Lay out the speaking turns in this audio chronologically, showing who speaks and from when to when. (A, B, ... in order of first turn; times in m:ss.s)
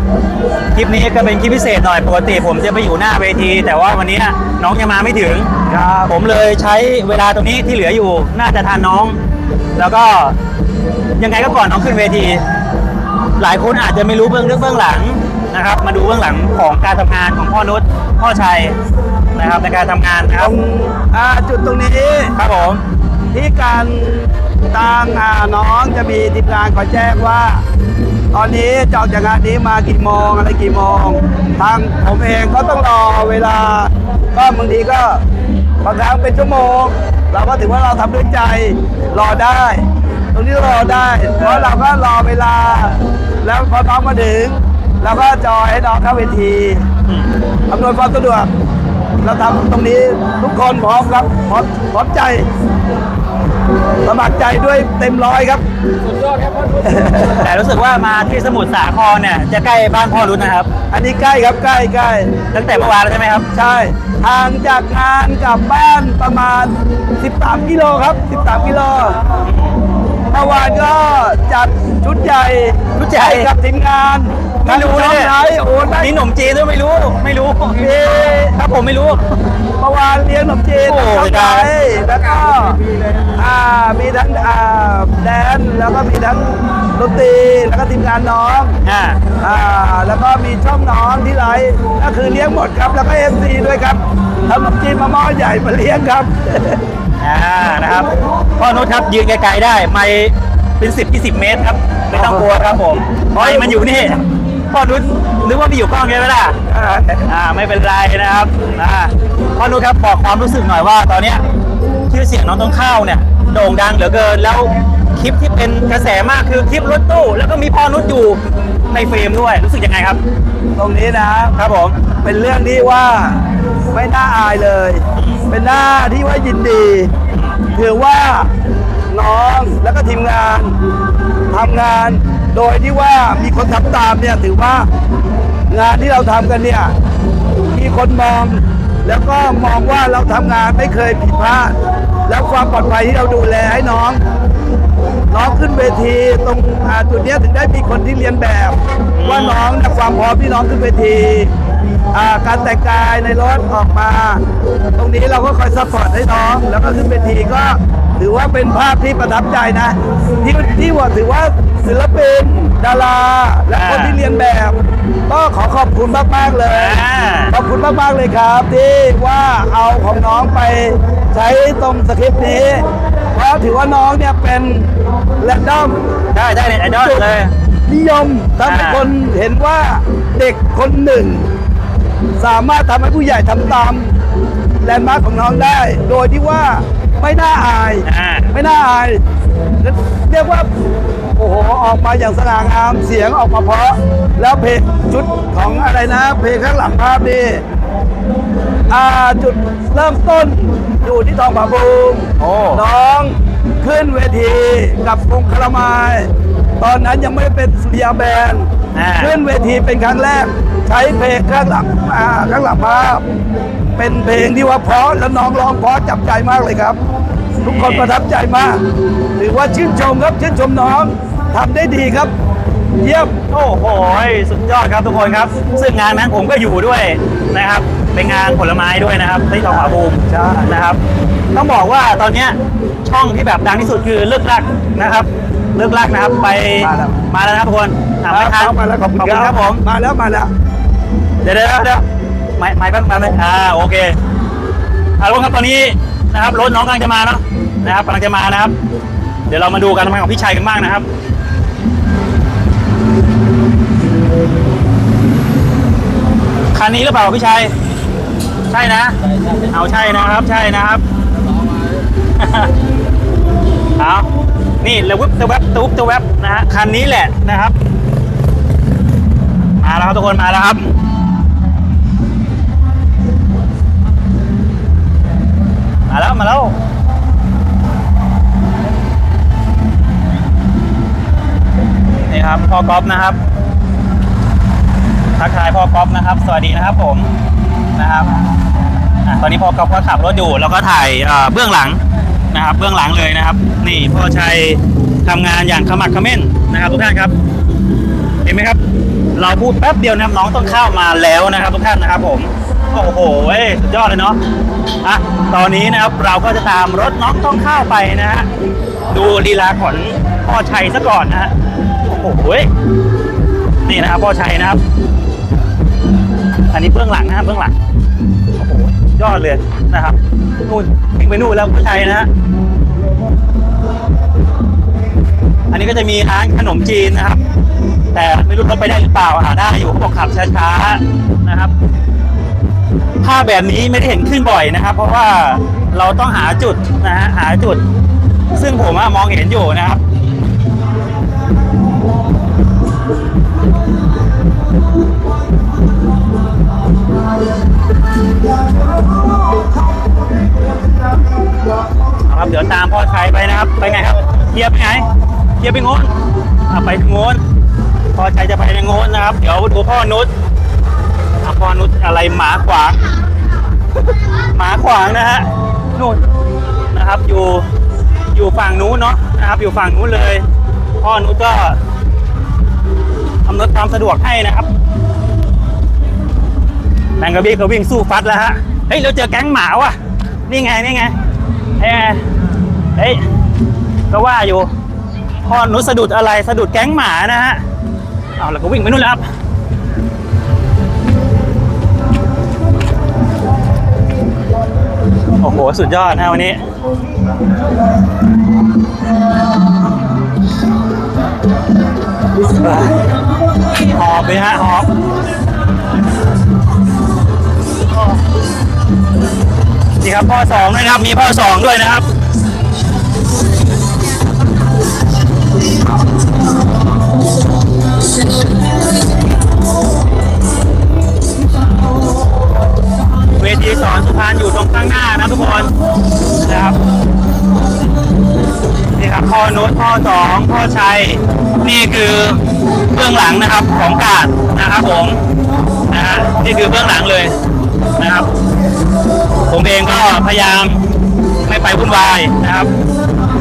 0:00.7-0:05.5 A
0:05.7-0:06.1 B
0:06.0-0:09.2 A
0:09.8-0:10.4 A
0:11.2-0:12.4 A
0:13.4-0:18.8 A
0:19.3-0:20.5 A
0:20.4-0:22.3 B
0:22.4-0:22.8 A
0:23.3-0:27.6 B
0:28.3-0:35.2 B
0:35.8-0:46.8 B
0:41.4-0:41.7 A
0:47.7-0:48.5 B
0:49.2-0:52.4 B
0:54.0-0:55.6 B
0:56.7-0:57.4 B
0:57.3-1:00.7 A
1:00.9-1:02.3 B
1:02.5-1:03.5 A
1:03.5-1:09.2 B
1:09.4-1:09.8 A
1:10.3-1:16.2 B
1:13.0-1:13.5 A
1:14.6-1:15.3 A
1:15.9-1:19.2 A
1:17.8-1:18.6 B
1:19.8-1:22.8 B
1:20.8-1:21.7 A
1:23.3-1:28.8 B
1:28.8-1:29.2 A
1:29.4-1:36.8 B
1:37.2-1:46.6 A
1:42.1-1:42.4 B
1:43.3-1:43.8 B
1:46.7-1:47.3 B
1:47.2-1:51.4 A
1:52.1-2:00.2 A
2:00.8-2:01.6 B
2:01.5-2:02.0 A
2:02.2-2:07.1 B
2:05.2-2:05.4 A
2:07.7-2:08.5 B
2:09.1-2:10.8 B
2:11.5-2:14.9 B
2:15.7-2:16.9 B
2:17.7-2:21.7 B
2:22.3-2:24.2 B
2:25.3-2:31.5 B
2:29.1-2:29.6 A
2:32.1-2:34.4 B
2:35.0-2:56.0 B
2:43.7-2:44.2 A
2:46.7-2:47.5 A
2:56.3-2:57.5 A
2:56.9-2:57.2 B
2:57.9-3:01.5 B
2:58.6-2:59.1 A
3:02.4-3:04.1 B
3:04.8-3:09.2 B
3:08.0-3:08.5 A
3:09.8-3:10.7 B
3:11.3-3:17.6 B
3:18.9-3:28.7 B
3:22.4-3:22.8 A
3:28.9-3:29.4 A
3:29.2-3:33.2 B
3:34.0-3:37.0 B
3:37.6-3:38.8 B
3:37.6-3:38.1 A
3:39.4-3:42.3 B
3:43.0-3:43.3 B
3:43.5-3:51.0 A
3:49.7-3:50.7 B
3:51.5-3:59.8 A
3:56.8-3:57.1 B
3:58.3-4:00.5 B
4:01.4-4:02.0 A
4:02.6-4:04.2 A
4:05.2-4:08.7 A
4:09.5-4:11.0 A
4:16.7-4:17.7 A
4:18.7-4:21.0 A
4:22.4-4:22.7 A
4:24.0-4:24.3 A
4:24.8-4:27.7 A
4:29.8-4:31.0 A
4:36.1-4:36.7 A
4:42.3-4:43.4 A
4:45.4-4:47.3 A
4:48.0-4:48.4 A
4:49.2-4:52.0 A
4:52.5-4:57.3 A
4:58.4-4:58.8 A
4:59.3-5:04.4 A
5:05.0-5:08.5 A
5:09.1-5:11.5 A
5:12.0-5:12.7 A
5:13.8-5:14.8 A
5:16.7-5:17.7 A
5:18.5-5:22.3 A
5:25.7-5:27.4 A
5:28.1-5:31.7 A
5:33.2-5:37.8 A
5:38.5-5:40.0 A
5:52.2-5:55.1 A
5:55.6-5:56.1 A
5:56.7-5:57.4 A
5:58.1-6:00.3 A
6:01.4-6:03.0 A
6:04.5-6:06.2 A
6:06.9-6:07.6 A
6:08.3-6:10.4 A
6:11.0-6:11.8 A
6:13.4-6:14.7 A
6:17.2-6:20.0 A
6:20.5-6:21.1 A
6:21.8-6:22.2 A
6:23.0-6:23.2 A
6:24.1-6:24.7 A
6:25.4-6:27.6 A
6:28.4-6:29.2 A
6:35.4-6:36.6 A
6:43.7-6:44.9 A
6:50.0-6:52.0 A
7:03.3-7:05.7 A
7:06.4-7:06.8 A
7:08.9-7:15.2 A
7:15.9-7:17.3 A
7:18.0-7:18.3 A
7:19.5-7:20.8 A
7:21.4-7:22.7 A